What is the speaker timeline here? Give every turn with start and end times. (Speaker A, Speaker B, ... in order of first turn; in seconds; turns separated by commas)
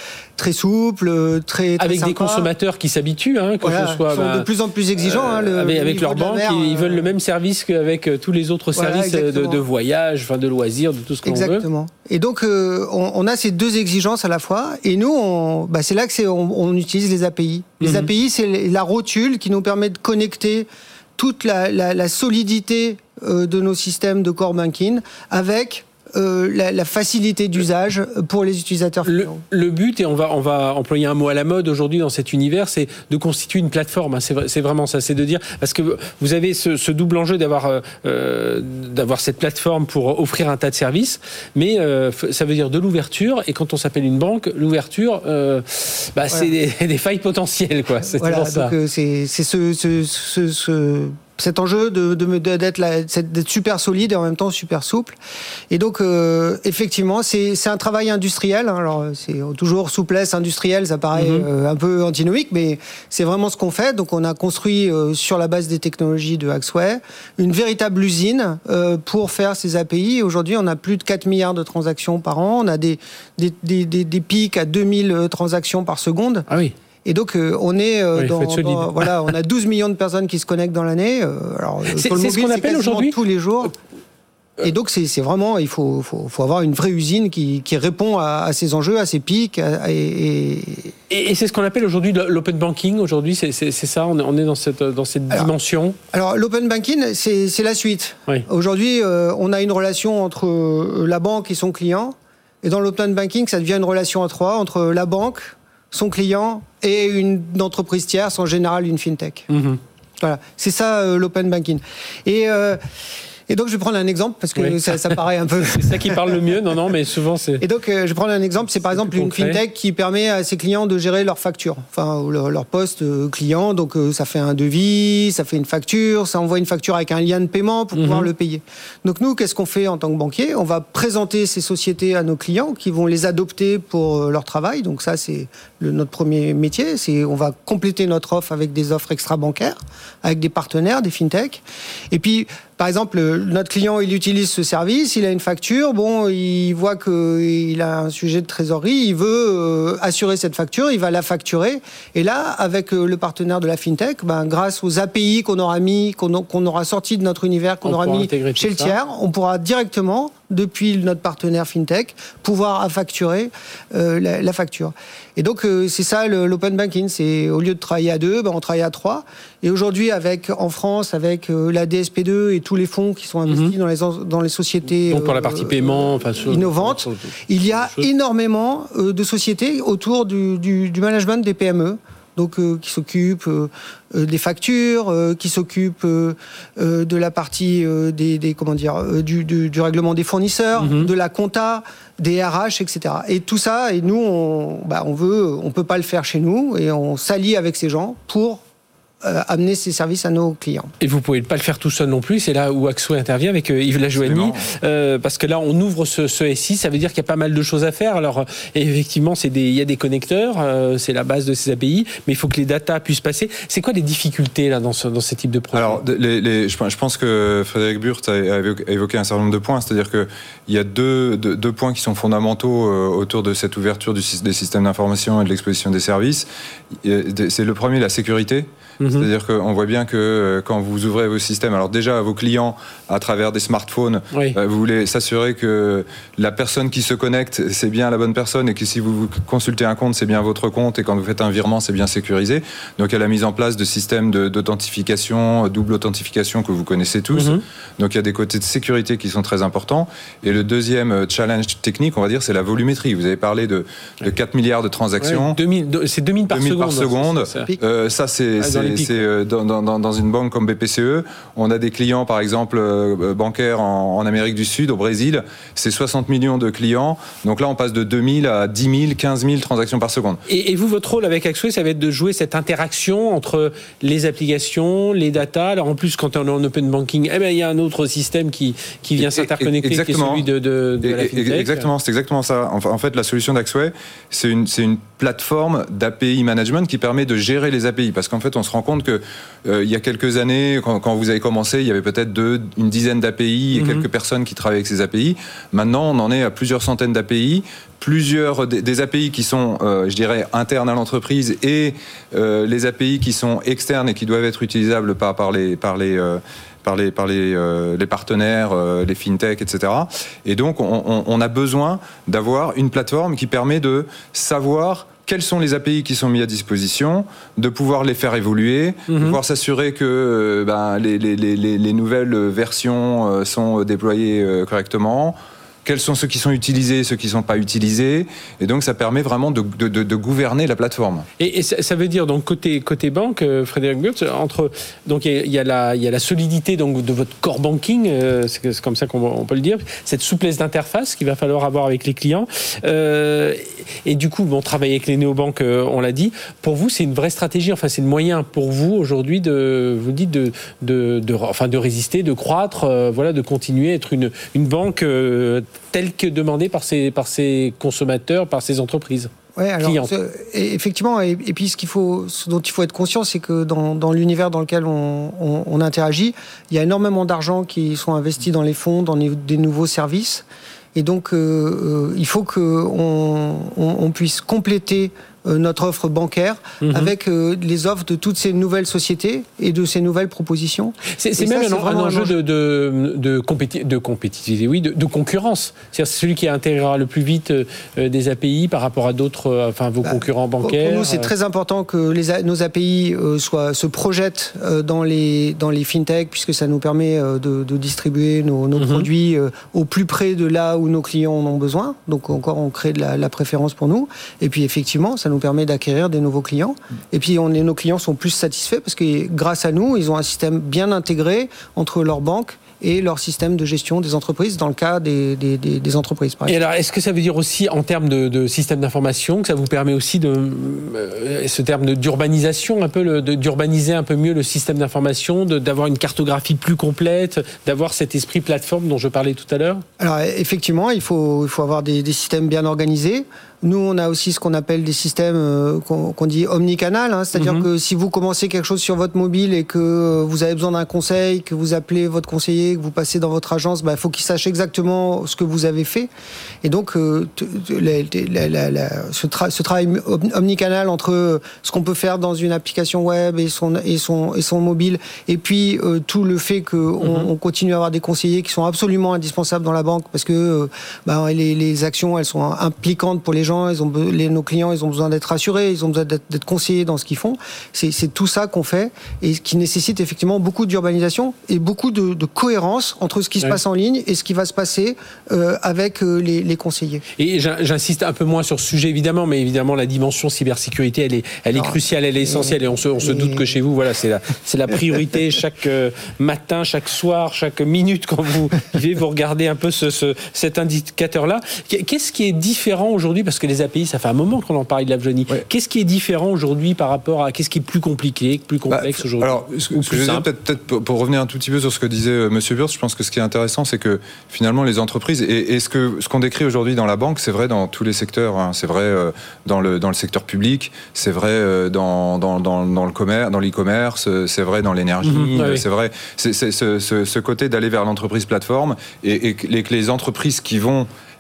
Speaker A: 0.4-2.5, Speaker B: 1.8-11.7, Speaker A: 3.6-7.1, Speaker A: 8.7-9.6, Speaker A: 11.2-29.4, Speaker B: 17.8-18.1, Speaker B: 29.1-48.7, Speaker A: 48.1-55.2, Speaker A: 55.7-76.5, Speaker B: 61.1-61.5, Speaker B: 76.5-76.7, Speaker A: 77.0-83.7, Speaker B: 78.1-79.1, Speaker B: 81.9-83.2, Speaker A: 84.6-90.9, Speaker B: 91.1-96.0, Speaker A: 96.1-109.5, Speaker B: 109.5-109.8, Speaker A: 110.2-112.8, Speaker A: 113.5-116.4, Speaker B: 114.6-115.1, Speaker B: 115.7-117.6, Speaker A: 117.6-198.6, Speaker B: 118.9-119.6, Speaker B: 127.9-128.3, Speaker B: 157.8-159.0, Speaker B: 173.5-173.7, Speaker B: 175.1-178.1, Speaker B: 190.8-191.1, Speaker A: 199.2-200.9, Speaker B: 201.0-216.0, Speaker C: 204.2-204.6, Speaker C: 215.7-226.4, Speaker C: 227.0-255.6, Speaker B: 229.0-229.3, Speaker B: 247.3-247.6, Speaker B: 255.2-257.7, Speaker C: 256.5-270.4, Speaker B: 258.6-259.2, Speaker B: 270.5-281.9, Speaker C: 279.2-280.4, Speaker C: 281.0-331.3, Speaker B: 293.7-294.1, Speaker B: 319.1-319.4, Speaker B: 331.4-359.3, Speaker A: 359.6-382.3, Speaker B: 359.8-360.1, Speaker B: 376.8-377.1, Speaker B: 381.2-391.3, Speaker A: 390.0-416.6, Speaker B: 398.8-399.1, Speaker B: 416.5-429.8, Speaker A: 430.0-446.1, Speaker B: 437.4-437.7, Speaker A: 446.6-477.0, Speaker B: 457.0-457.3, Speaker B: 477.2-500.2, Speaker A: 481.5-483.5, Speaker C: 498.7-520.9, Speaker B: 515.0-515.6